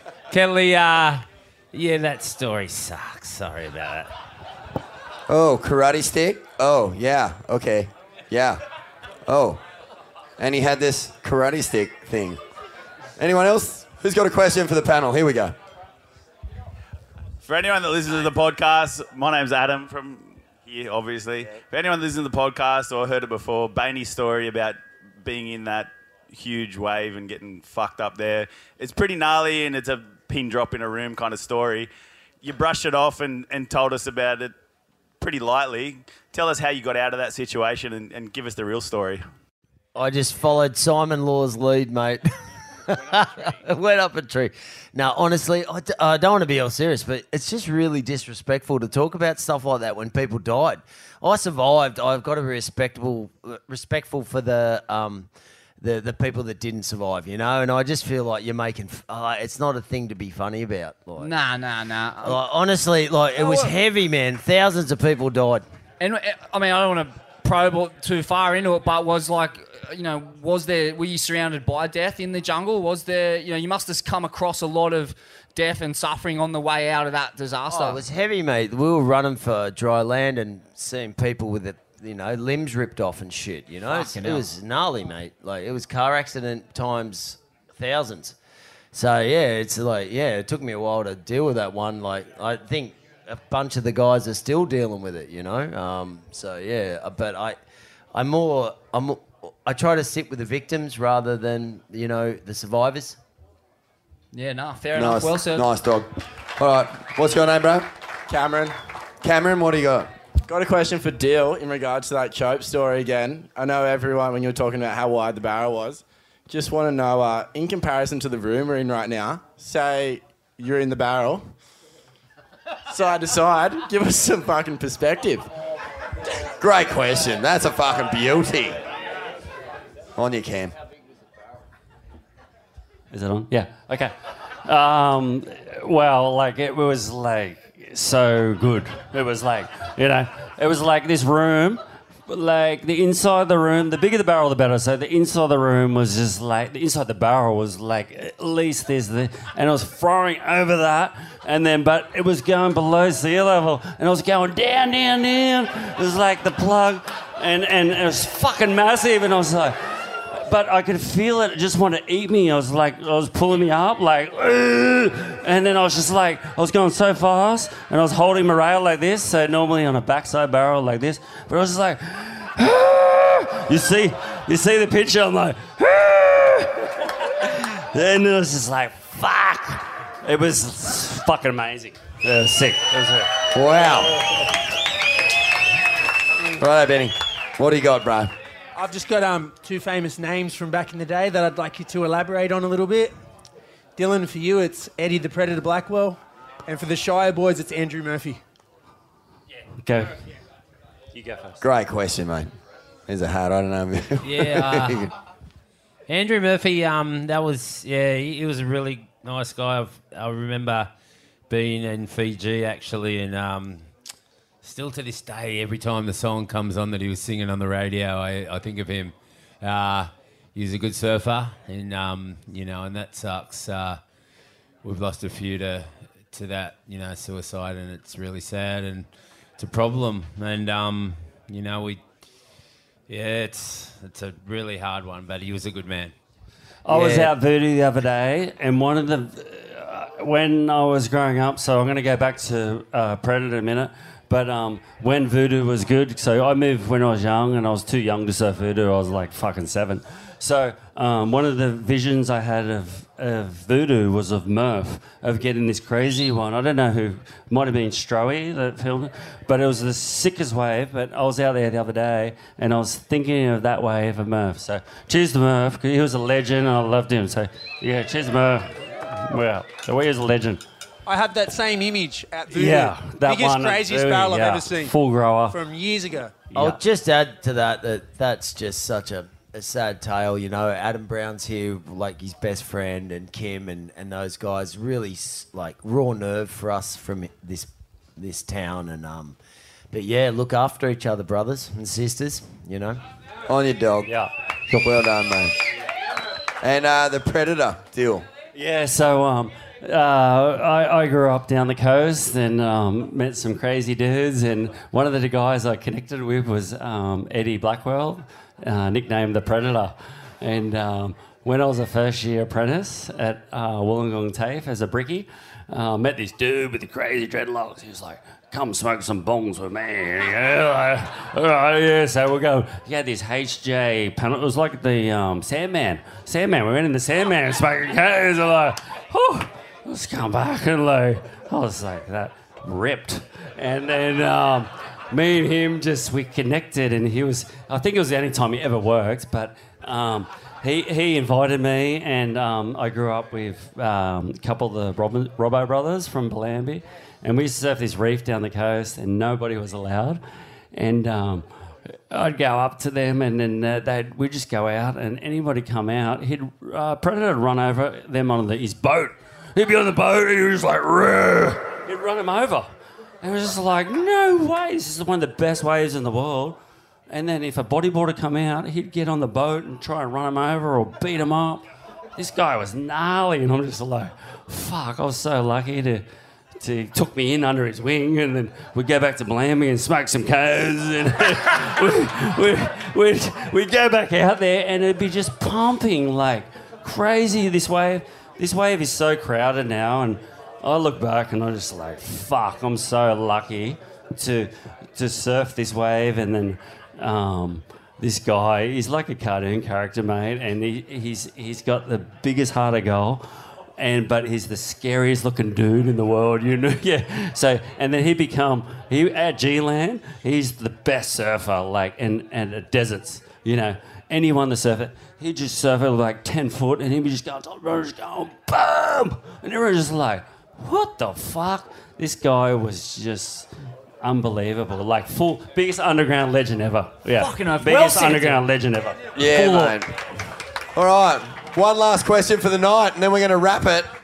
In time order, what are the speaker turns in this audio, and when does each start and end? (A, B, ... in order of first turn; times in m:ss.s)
0:00.3-0:04.1 A
0:05.3-0:08.6 B
0:09.3-0:09.6 B
0:10.4-0:12.4 B
0:13.2-0:15.6 B
0:17.4-0:31.9 C
0:32.4-0:34.6 C
0:35.2-0:39.2 C
0:40.0-0:42.2 D
0:42.9-0:55.3 D
0:55.8-1:01.3 D
1:01.2-1:02.4 E
1:02.2-1:05.6 D
1:03.4-1:03.8 E
1:06.0-1:18.0 E
1:17.7-1:28.4 D
1:23.8-1:24.5 E
1:28.9-1:37.6 D
1:38.1-1:43.2 D
1:44.3-1:45.7 E
1:44.9-1:47.9 B
1:48.3-1:48.8 F
1:49.2-1:50.1 B
1:50.5-2:01.5 F
2:02.9-2:05.5 F
2:06.6-2:08.8 B
2:10.2-2:10.8 B
2:13.1-2:14.1 G
2:14.6-3:03.3 G
3:03.5-3:04.1 B
3:06.6-3:08.3 B
3:08.8-3:13.1 H
3:14.0-3:18.4 H
3:19.8-3:20.2 G
3:21.1-3:21.6 G
3:21.6-3:22.5 B
3:23.1-3:25.1 B
3:24.2-3:25.1 A
3:26.1-3:30.9 A
3:31.5-3:33.9 A
3:34.6-3:44.0 A
3:44.8-3:49.1 A
3:49.6-3:52.0 A
3:53.1-3:56.1 A
3:56.8-4:30.6 G
3:56.9-3:57.2 D
4:31.1-4:35.0 H
4:32.5-4:35.6 G
4:35.5-4:36.3 H
4:36.5-4:36.8 G
4:36.6-4:49.4 D
4:49.9-4:53.0 D
4:53.5-4:54.1 B
4:54.1-4:54.3 G
4:54.7-4:55.5 B
4:56.6-4:58.3 B
4:58.5-5:50.2 G
5:50.7-6:02.7 G
6:03.2-6:06.6 G
6:07.1-6:11.6 G
6:12.2-6:16.0 G
6:16.6-6:43.2 G
6:43.8-7:03.5 G
7:04.0-7:09.8 G
7:07.2-7:08.4 E
7:09.2-7:09.9 B
7:10.8-7:13.9 B